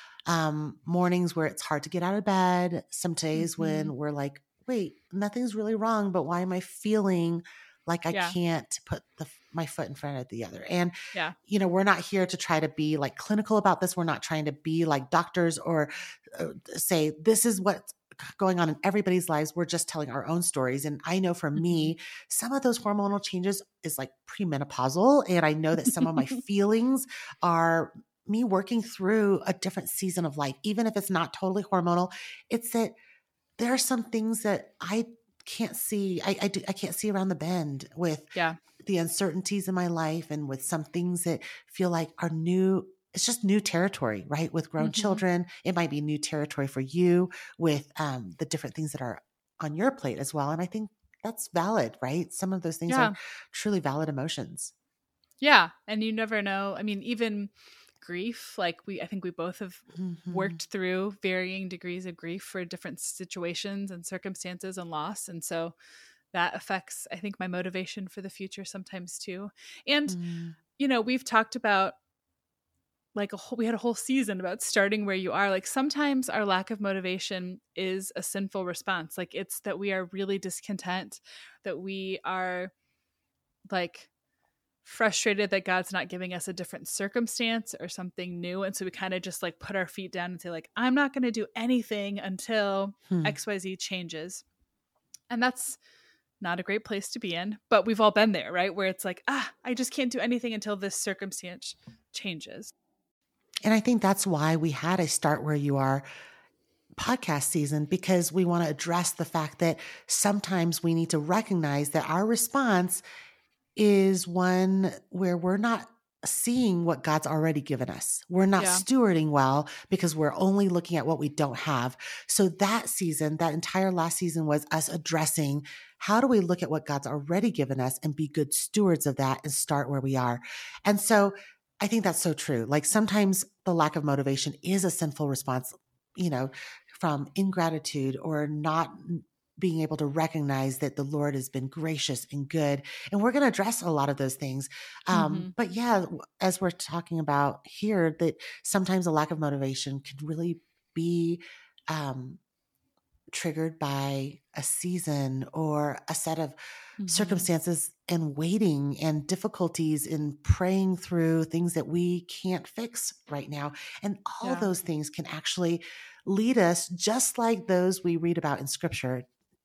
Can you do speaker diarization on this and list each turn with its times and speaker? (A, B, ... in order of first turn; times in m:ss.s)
0:00.3-0:10.9 A
0:03.4-0:03.9 B
0:08.1-0:08.4 B
0:11.4-0:32.9 A
0:21.6-0:21.9 B
0:33.6-0:38.3 A
0:38.8-0:54.7 A
0:44.8-0:45.2 B
0:52.9-0:53.1 B
0:55.4-1:05.8 B
0:59.9-1:00.6 A
1:06.3-1:10.2 B
1:10.1-1:10.6 A
1:10.8-1:11.9 B
1:13.1-1:22.7 B
1:23.7-1:24.1 B
1:24.8-1:34.4 B
1:33.1-1:33.4 A
1:35.3-1:35.8 B
1:36.4-1:42.7 B
1:43.6-1:46.0 A
1:47.0-1:53.0 A
1:53.8-2:32.4 A
1:58.6-1:58.8 B
2:25.1-2:25.5 B
2:33.3-2:36.6 A
2:37.0-2:37.4 B
2:37.1-2:49.2 A
2:44.4-2:44.7 B